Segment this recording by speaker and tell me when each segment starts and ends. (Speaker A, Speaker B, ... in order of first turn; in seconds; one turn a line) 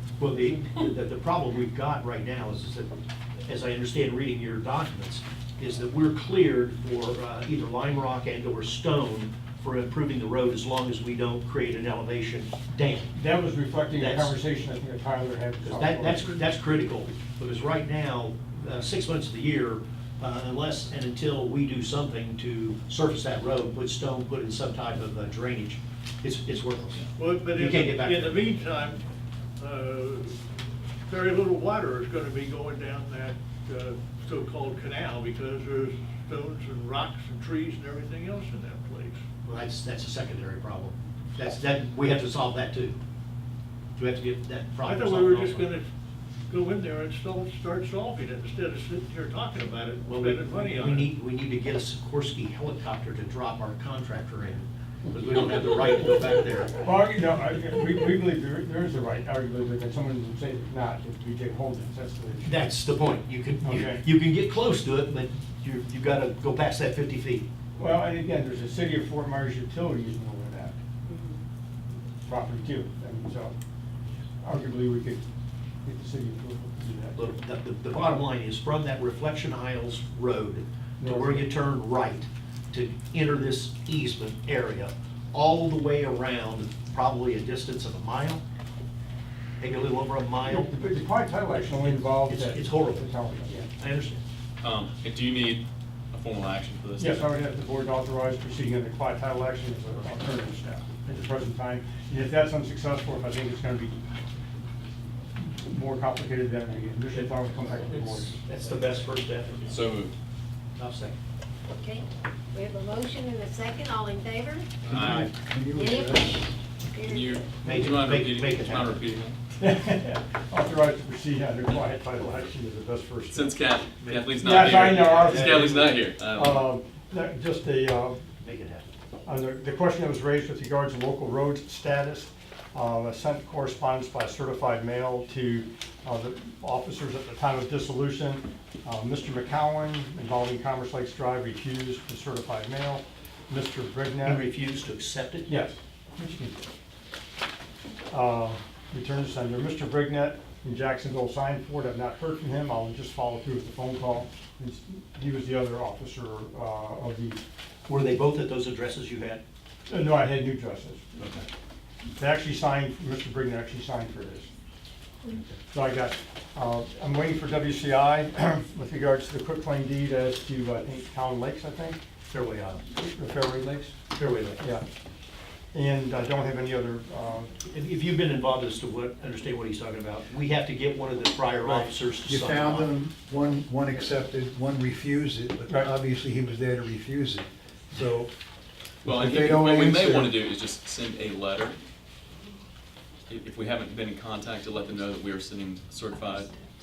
Speaker A: 0.2-13.1
Speaker B: 13.1-16.4
Speaker A: 14.0-14.4
Speaker A: 15.6-28.5
Speaker C: 27.2-29.0
Speaker C: 29.6-30.4
Speaker C: 31.1-39.2
Speaker A: 39.5-43.0
Speaker A: 44.0-45.7
Speaker C: 44.9-45.9
Speaker C: 46.5-51.1
Speaker A: 49.9-56.8
Speaker B: 56.8-62.7
Speaker A: 62.4-67.5
Speaker B: 63.6-64.0
Speaker B: 67.8-70.8
Speaker B: 72.2-73.5
Speaker B: 74.4-75.2
Speaker B: 75.8-77.2
Speaker A: 77.2-88.4
Speaker B: 81.0-81.5
Speaker A: 89.6-90.7
Speaker B: 90.5-93.7
Speaker A: 92.0-93.1
Speaker A: 93.8-94.2
Speaker D: 94.6-97.3
Speaker B: 97.0-104.0
Speaker B: 105.4-108.4
Speaker A: 107.2-109.8
Speaker D: 109.7-110.1
Speaker A: 110.8-111.2
Speaker E: 112.5-114.7
Speaker A: 114.8-115.3
Speaker F: 114.9-116.6
Speaker D: 114.9-115.3
Speaker E: 115.8-116.3
Speaker E: 117.0-117.5
Speaker D: 117.0-119.4
Speaker A: 117.6-119.0
Speaker B: 119.6-123.6
Speaker D: 123.3-126.7
Speaker A: 124.0-126.0
Speaker B: 124.4-128.2
Speaker A: 128.4-128.9
Speaker B: 129.3-144.4
Speaker A: 144.2-145.6
Speaker B: 145.5-146.7
Speaker B: 148.1-157.4
Speaker A: 157.9-159.4
Speaker B: 159.9-161.2
Speaker A: 161.2-161.5
Speaker B: 162.2-164.5
Speaker B: 165.7-172.0
Speaker A: 172.3-172.8
Speaker B: 172.9-174.0
Speaker A: 174.1-174.6
Speaker B: 174.6-174.9
Speaker B: 175.7-177.5
Speaker A: 177.7-182.9
Speaker F: 181.6-188.3
Speaker D: 189.0-191.8
Speaker F: 189.1-190.4
Speaker D: 193.3-196.5